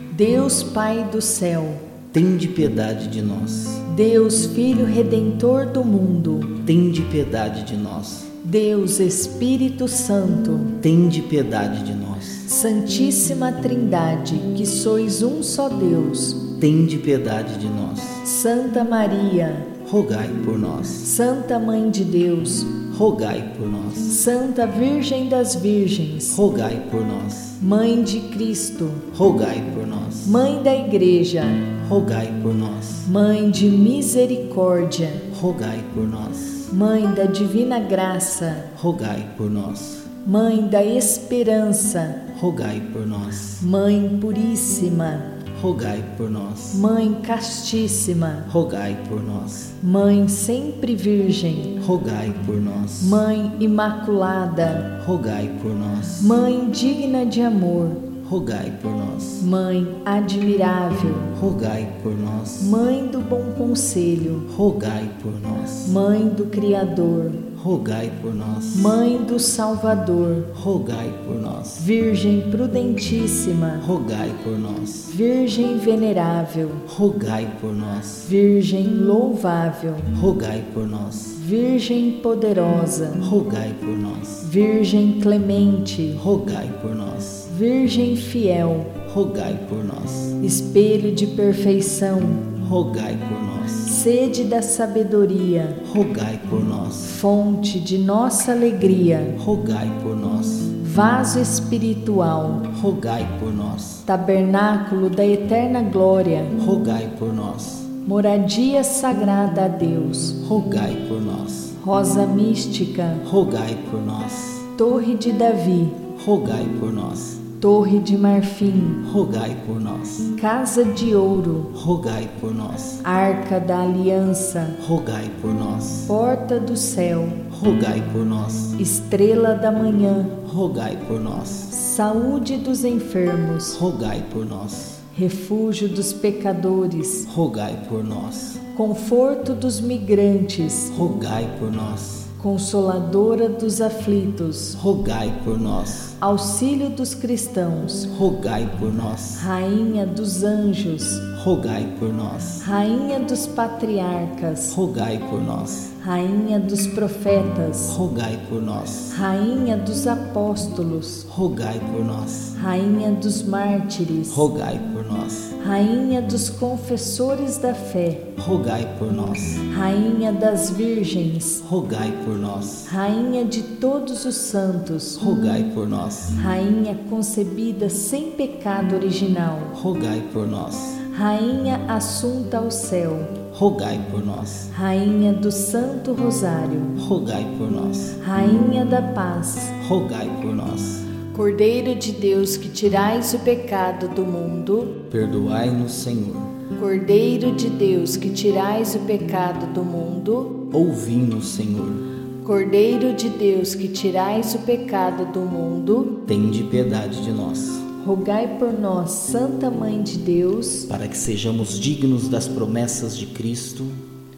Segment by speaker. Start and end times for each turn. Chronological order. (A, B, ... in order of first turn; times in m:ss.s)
0:00.1-0:01.8 A
0:02.1-0:03.8 B
0:03.8-0:06.6 A
0:06.6-0:08.3 B
0:08.4-0:10.8 A
0:10.8-0:12.5 B
0:12.4-0:16.5 A
0:16.5-0:18.2 B
0:18.2-0:19.7 A
0:19.8-0:21.1 B
0:21.0-0:22.8 A
0:22.8-0:24.1 B
0:24.0-0:26.4 A
0:26.3-0:27.6 B
0:27.6-0:29.0 A
0:29.1-0:30.4 B
0:30.2-0:31.7 A
0:31.8-0:33.1 B
0:33.0-0:35.3 A
0:35.3-0:36.7 B
0:36.7-0:38.7 A
0:38.7-0:40.1 B
0:40.2-0:42.2 A
0:42.3-0:43.6 B
0:43.6-0:45.4 A
0:45.5-0:46.8 B
0:46.7-0:48.5 A
0:48.5-0:49.8 B
0:49.8-0:51.8 A
0:51.8-0:53.2 B
0:53.0-0:54.9 A
0:55.0-0:56.4 B
0:56.2-0:58.0 A
0:58.2-0:59.5 B
0:59.4-1:01.3 A
1:01.3-1:02.8 B
1:02.6-1:04.5 A
1:04.5-1:06.0 B
1:05.8-1:07.4 A
1:07.5-1:09.0 B
1:08.7-1:10.5 A
1:10.5-1:11.8 B
1:11.8-1:13.8 A
1:13.8-1:15.1 B
1:15.1-1:16.8 A
1:16.9-1:18.3 B
1:18.2-1:20.1 A
1:20.1-1:21.4 B
1:21.4-1:23.2 A
1:23.2-1:24.5 B
1:24.4-1:26.2 A
1:26.2-1:27.5 B
1:27.5-1:29.0 A
1:29.0-1:30.4 B
1:30.4-1:32.5 A
1:32.6-1:33.9 B
1:33.8-1:35.8 A
1:35.8-1:37.1 B
1:37.0-1:39.4 A
1:39.4-1:40.8 B
1:40.8-1:42.7 A
1:42.7-1:44.0 B
1:44.0-1:46.5 A
1:46.6-1:47.9 B
1:48.0-1:50.4 A
1:50.4-1:51.8 B
1:51.8-1:53.2 A
1:53.2-1:54.7 B
1:54.7-1:56.0 A
1:56.2-1:57.5 B
1:57.6-1:59.0 A
1:59.0-2:00.3 B
2:00.3-2:01.7 A
2:01.7-2:03.0 B
2:03.0-2:04.8 A
2:04.8-2:06.1 B
2:06.1-2:07.4 A
2:07.5-2:08.8 B
2:08.8-2:10.3 A
2:10.4-2:11.7 B
2:11.7-2:13.8 A
2:13.7-2:15.0 B
2:15.1-2:17.3 A
2:17.3-2:18.6 B
2:18.7-2:20.9 A
2:20.9-2:22.3 B
2:22.4-2:24.8 A
2:24.8-2:26.2 B
2:26.2-2:28.1 A
2:28.1-2:29.5 B
2:29.4-2:31.3 A
2:31.3-2:32.6 B
2:32.6-2:34.7 A
2:34.7-2:35.9 B
2:36.0-2:38.0 A
2:37.9-2:39.2 B
2:39.1-2:41.2 A
2:41.3-2:42.6 B
2:42.5-2:44.5 A
2:44.3-2:45.6 B
2:45.6-2:48.2 A
2:48.4-2:49.6 B
2:49.6-2:51.6 A
2:51.6-2:53.0 B
2:52.9-2:55.2 A
2:55.2-2:56.4 B
2:56.4-2:59.7 A
2:59.7-3:01.0 B
3:01.0-3:03.4 A
3:03.5-3:04.7 B
3:04.7-3:07.0 A
3:07.0-3:08.2 B
3:08.2-3:09.7 A
3:09.8-3:11.1 B
3:11.3-3:15.0 A
3:15.1-3:16.5 B
3:16.7-3:20.6 A
3:20.7-3:22.0 B
3:22.4-3:26.2 A
3:26.2-3:27.9 B
3:28.0-3:30.9 A
3:30.9-3:34.0 B